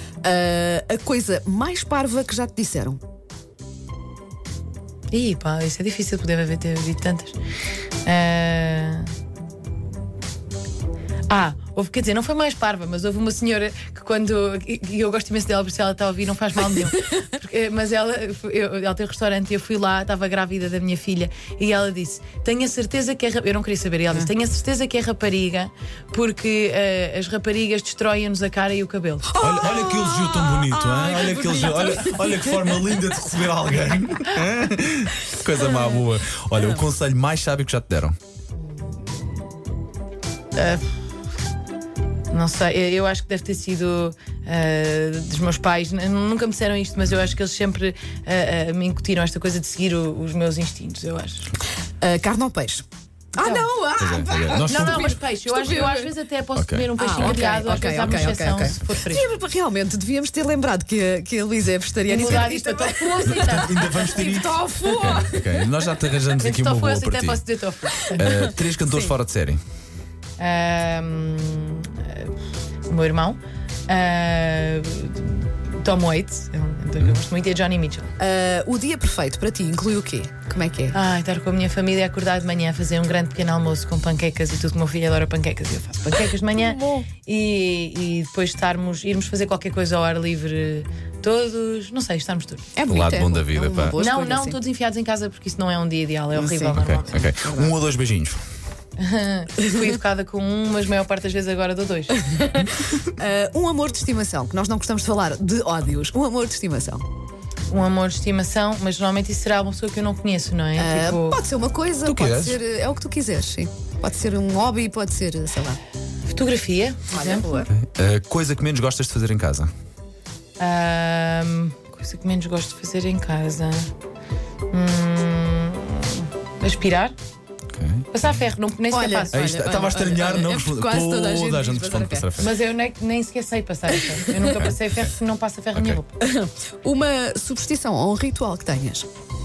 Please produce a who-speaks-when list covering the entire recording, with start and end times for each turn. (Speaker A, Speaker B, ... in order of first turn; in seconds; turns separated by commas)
Speaker A: 0.2-3.0, Speaker B: 5.1-7.3, Speaker B: 8.0-9.1, Speaker B: 11.3-29.3, Speaker A: 29.2-32.9, Speaker C: 29.4-38.1, Speaker A: 35.6-36.0, Speaker B: 40.5-40.9, Speaker B: 42.3-51.5, Speaker A: 52.0-52.8, Speaker A: 53.4-56.1, Speaker B: 53.4-53.7, Speaker C: 54.0-55.2, Speaker B: 54.5-59.2, Speaker C: 56.5-57.4, Speaker A: 57.0-65.8, Speaker B: 62.1-64.2, Speaker C: 63.2-67.4, Speaker B: 66.4-68.3, Speaker A: 68.0-69.1, Speaker C: 68.1-69.6, Speaker B: 70.4-72.3, Speaker B: 72.8-78.1, Speaker A: 78.2-81.0, Speaker B: 80.9-92.7, Speaker A: 86.5-87.1, Speaker A: 92.8-94.6, Speaker C: 92.8-94.0, Speaker B: 93.9-97.3, Speaker A: 96.3-97.8, Speaker C: 96.7-98.4, Speaker B: 99.0-102.5, Speaker A: 102.5-107.0, Speaker B: 107.7-111.4, Speaker A: 110.8-115.8, Speaker C: 112.0-112.6, Speaker B: 116.2-117.6, Speaker A: 117.1-117.7, Speaker C: 117.7-119.7, Speaker B: 120.6-123.9, Speaker B: 124.7-127.1, Speaker C: 127.7-128.1, Speaker B: 128.1-129.7, Speaker A: 128.9-132.3, Speaker C: 129.3-132.5, Speaker B: 132.4-136.2, Speaker A: 134.0-134.6, Speaker C: 134.5-134.8, Speaker C: 135.7-136.0, Speaker A: 136.2-139.1